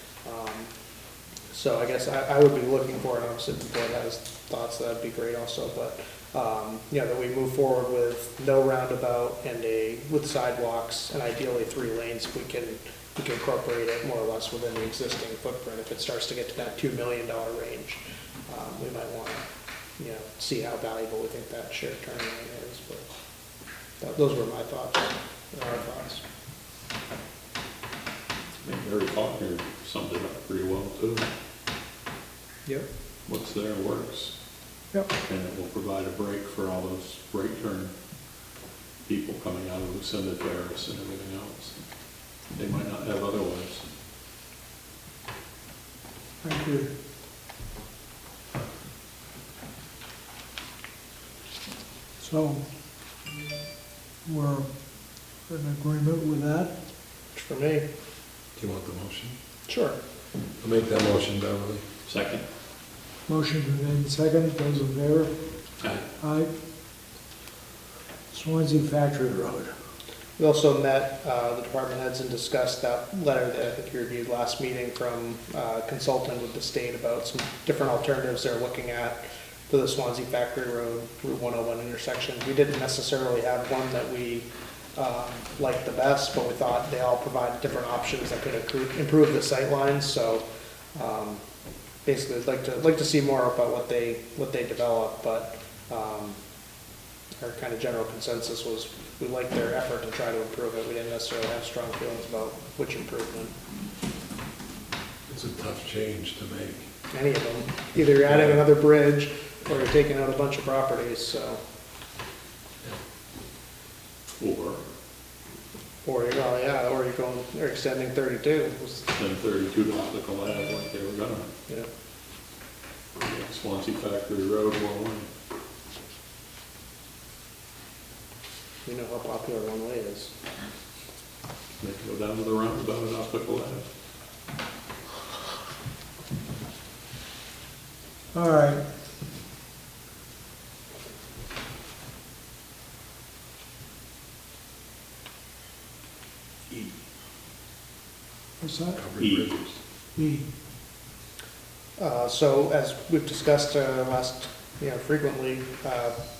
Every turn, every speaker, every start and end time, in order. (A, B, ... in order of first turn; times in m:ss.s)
0:00.2-0:00.7 A
0:01.5-0:19.4 A
0:20.0-0:23.0 A
0:24.0-0:26.2 A
0:28.6-0:31.3 B
0:33.3-0:34.3 B
0:35.2-0:37.9 B
0:39.0-0:41.8 B
0:42.5-0:43.8 B
0:46.4-0:46.9 C
0:52.2-0:52.6 C
0:54.2-0:54.7 C
0:55.5-0:56.7 C
0:57.3-0:57.8 A
0:58.5-0:59.4 D
0:59.7-1:00.0 A
1:00.6-1:01.8 D
1:02.0-1:02.4 B
1:03.3-1:05.3 C
1:06.2-1:06.5 C
1:08.3-1:09.7 C
1:10.4-1:30.4 A
1:31.0-1:31.4 A
1:32.0-1:36.4 A
1:37.4-1:43.5 A
1:45.3-1:46.9 D
1:47.1-1:51.6 A
1:54.4-1:54.8 B
1:56.0-1:59.1 A
1:59.1-2:01.5 B
2:03.2-2:05.3 B
2:08.8-2:10.3 A
2:11.8-2:13.9 B
2:18.3-2:18.8 C
2:28.6-2:29.0 C
2:28.9-2:29.8 D
2:29.2-2:29.6 B
2:30.2-2:30.4 C
2:32.0-2:36.1 A